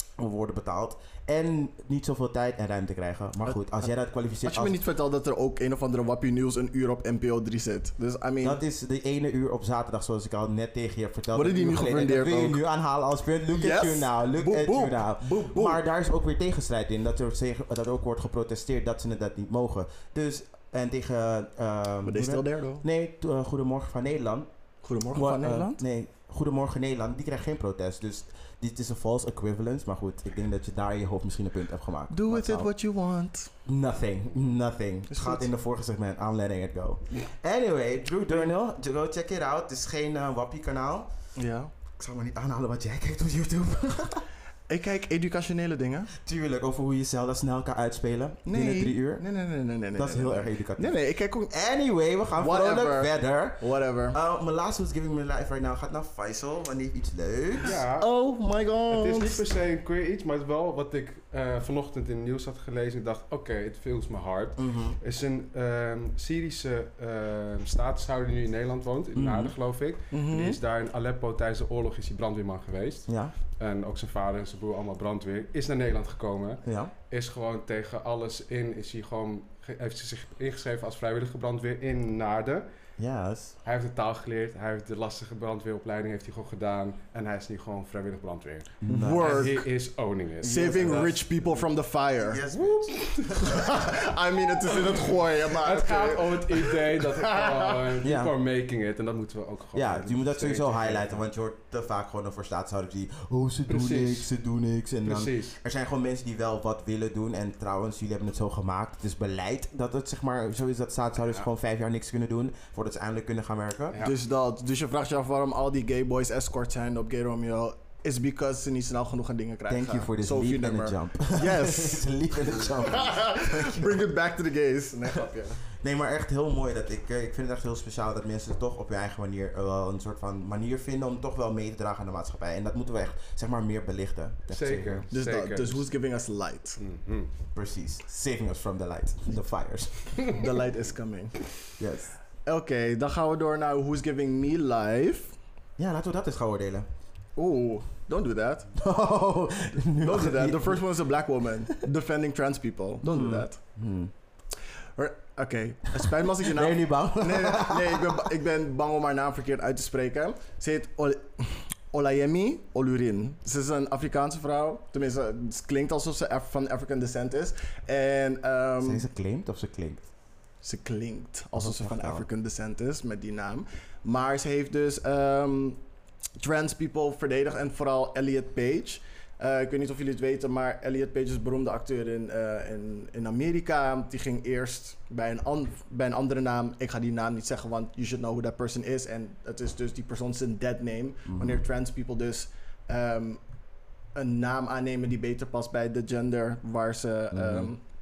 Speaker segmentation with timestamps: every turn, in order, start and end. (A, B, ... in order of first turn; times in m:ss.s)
0:00.2-0:04.8 A
0:04.4-0:08.6 B
0:08.4-0:24.5 A
0:11.3-0:12.6 B
0:13.5-0:15.8 B
0:22.0-0:22.8 B
0:24.8-0:25.8 B
0:25.1-0:32.7 A
0:32.1-0:33.5 B
0:33.6-0:41.1 A
0:35.1-0:35.5 B
0:41.4-0:41.7 B
0:42.0-0:44.3 A
0:44.7-0:46.1 B
0:46.1-0:49.2 A
0:48.4-0:51.5 B
0:49.9-0:51.0 A
0:51.5-0:57.8 A
0:52.4-0:54.2 B
0:57.6-0:58.1 C
0:57.9-0:59.4 B
0:58.9-1:22.7 C
1:04.6-1:05.0 A
1:09.1-1:09.6 A
1:10.1-1:10.6 B
1:13.1-1:13.3 A
1:16.6-1:16.9 A
1:23.0-1:23.6 A
1:23.6-1:31.6 C
1:28.8-1:29.4 A
1:28.8-1:29.7 B
1:30.4-1:32.4 B
1:30.4-1:31.2 A
1:32.2-1:34.0 A
1:32.5-1:33.1 C
1:33.2-1:37.8 B
1:35.6-1:41.2 C
1:38.0-1:38.3 A
1:39.7-1:54.0 A
1:43.7-1:44.3 C
1:45.0-1:45.6 C
1:54.0-2:02.1 B
1:59.7-2:04.0 A
2:02.6-2:05.6 B
2:05.7-2:15.1 A
2:14.5-2:15.9 C
2:15.1-2:16.8 B
2:16.8-2:17.3 C
2:17.6-2:20.1 A
2:20.2-2:21.4 B
2:21.8-2:22.1 A
2:22.4-2:25.4 B
2:25.8-2:26.9 A
2:27.4-2:28.7 B
2:28.8-2:30.8 A
2:30.0-2:33.6 B
2:33.0-2:34.1 A
2:35.0-2:49.1 B
2:36.4-2:38.3 A
2:48.8-2:50.0 A
2:50.6-2:55.8 B
2:51.6-2:52.2 A
2:56.4-3:13.4 B
3:11.3-3:11.6 A
3:14.2-3:17.8 B
3:17.3-3:17.7 A